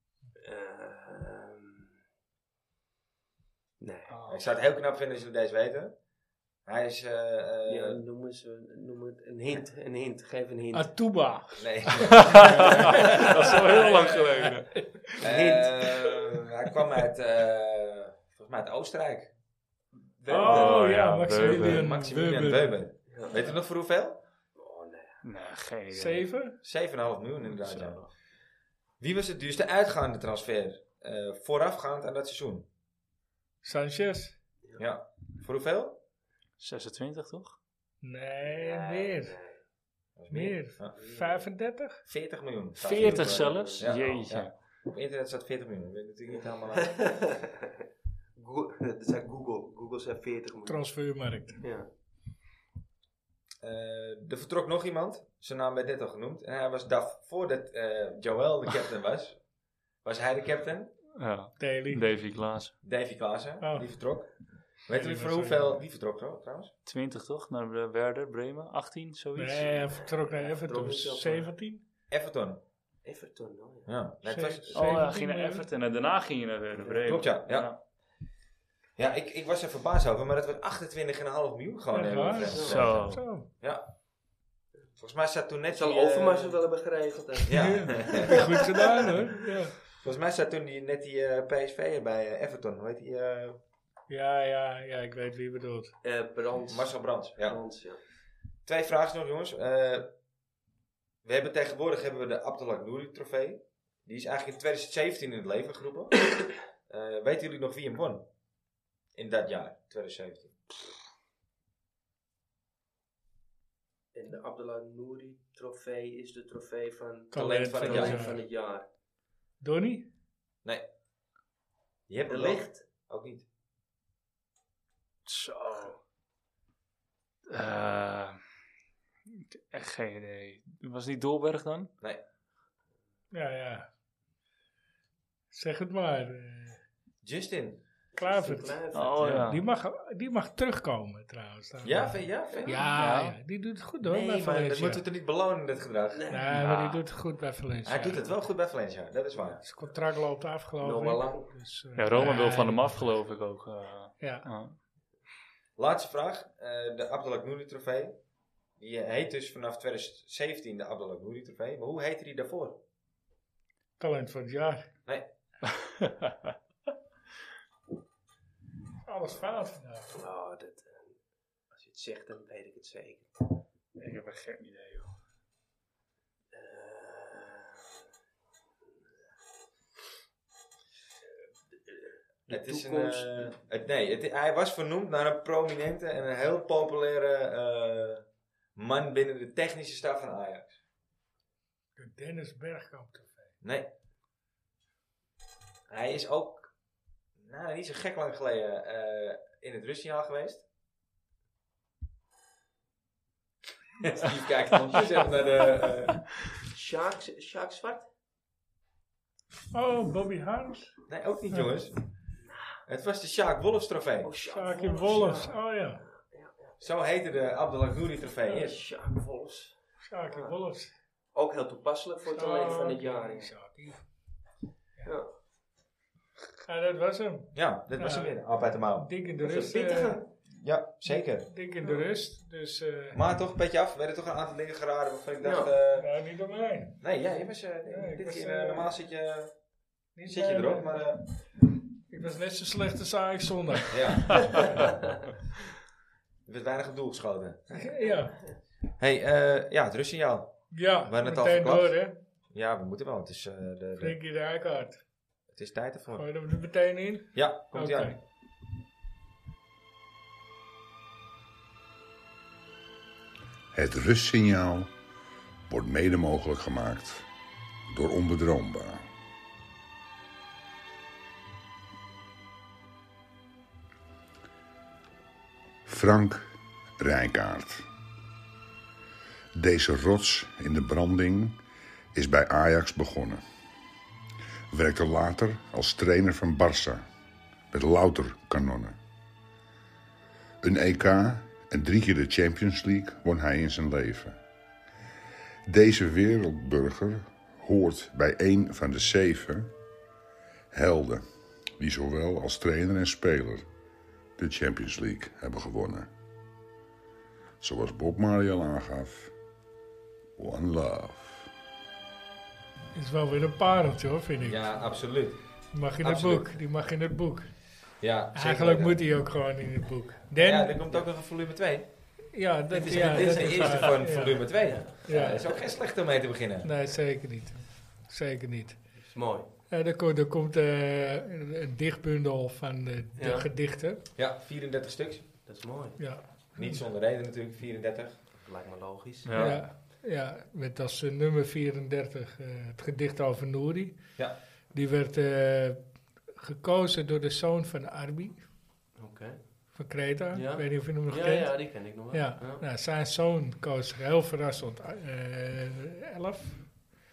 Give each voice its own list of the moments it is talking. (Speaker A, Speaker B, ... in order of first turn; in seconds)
Speaker A: 0.4-1.9, 3.8-4.2, 7.7-10.9, 15.2-15.7, 23.1-23.4, 24.6-25.2, 38.5-39.6, 40.9-41.5, 42.9-44.2, 46.4-47.6, 48.4-50.9, 51.6-51.9, 69.9-71.5, 73.0-74.0, 76.8-77.2, 82.4-82.8, 85.7-89.0, 96.0-98.0, 114.1-118.9, 122.3-122.8, 138.2-139.5, 142.5-142.8, 146.1-147.0, 150.8-151.5, 170.1-171.2, 171.7-173.4, 176.5-177.9, 181.7-183.5, 206.6-208.1, 212.4-212.8, 214.2-216.8, 218.5-220.6, 221.3-223.5, 225.0-225.3, 229.4-230.2, 235.4-235.7, 323.2-323.8, 324.6-325.1, 329.0-329.5, 333.2-333.5, 335.5-336.2, 338.4-339.3, 349.0-349.8, 350.3-352.6
Speaker B: 4.1-4.4, 12.2-14.8, 20.4-21.9, 25.2-26.3, 27.4-28.1, 36.6-37.6, 42.8-44.5, 61.2-62.7, 66.9-69.8, 74.8-77.8, 82.7-83.2, 125.3-126.0, 127.5-128.4, 129.5-131.9, 138.9-139.6, 143.0-143.4, 152.0-154.8, 174.0-175.1, 339.2-339.6
Speaker C: 4.3-6.0, 6.7-8.0, 11.6-13.0, 15.2-19.3, 20.0-24.2, 26.6-28.1, 29.0-32.7, 34.8-36.0, 40.2-41.0, 42.0-47.1, 53.6-59.4, 60.0-60.9, 62.8-66.7, 72.1-72.6, 73.9-74.9, 77.0-77.8, 79.0-83.9, 85.0-86.6, 87.4-88.4, 90.0-93.6, 96.7-97.6, 98.7-100.1, 101.2-108.3, 109.2-110.6, 117.3-118.3, 122.1-123.5, 137.2-137.8, 141.8-142.9, 144.0-146.3, 147.8-149.6, 155.8-158.2, 158.8-162.8, 182.5-188.2, 188.8-190.8, 193.6-193.9, 195.9-196.7, 197.4-200.6, 204.0-206.3, 211.1-212.0, 212.9-214.3, 216.8-218.8, 227.5-231.5, 233.1-236.1, 237.0-239.5, 240.3-241.2, 243.9-244.9, 246.5-248.0, 249.0-252.0, 252.5-254.2, 255.5-256.3, 257.3-258.2, 314.4-315.4, 316.0-316.5, 318.0-319.0, 320.4-321.9, 322.7-326.7, 334.2-335.3, 336.6-338.2, 339.3-339.7
Speaker D: 10.7-15.2, 20.3-22.8, 25.9-26.6, 33.6-34.4, 38.0-39.4, 40.3-42.0, 50.7-51.6, 61.6-62.0, 63.6-63.9, 64.9-65.8, 69.3-71.8, 74.2-75.7, 81.9-83.5, 87.5-89.8, 94.1-95.9, 117.3-118.4, 119.6-120.1, 133.3-133.9, 135.5-136.8, 138.2-145.0, 146.3-148.3, 149.6-153.0, 154.2-154.5, 164.0-164.9, 169.1-170.2, 192.0-193.5, 209.7-211.0, 214.5-216.0, 220.0-220.9, 222.3-224.1, 226.7-228.4, 228.9-230.2, 231.1-233.2, 235.9-237.0, 237.9-238.9, 240.2-241.0, 242.1-244.0, 247.7-248.4, 250.7-252.2, 254.0-255.0, 256.1-258.2, 312.9-314.8, 315.7-317.5, 318.3-320.8, 322.3-325.4, 326.6-329.0, 329.7-334.0, 336.0-336.9, 339.4-344.0, 344.7-348.4, 349.8-356.7
Speaker E: 263.7-264.9, 265.7-267.3, 267.9-269.1, 275.9-277.9, 279.6-281.6, 282.1-283.4, 284.7-287.1, 287.7-289.0, 290.6-294.4, 295.7-299.7, 300.7-301.2, 301.8-303.7, 304.4-306.1, 307.6-309.3, 310.4-311.5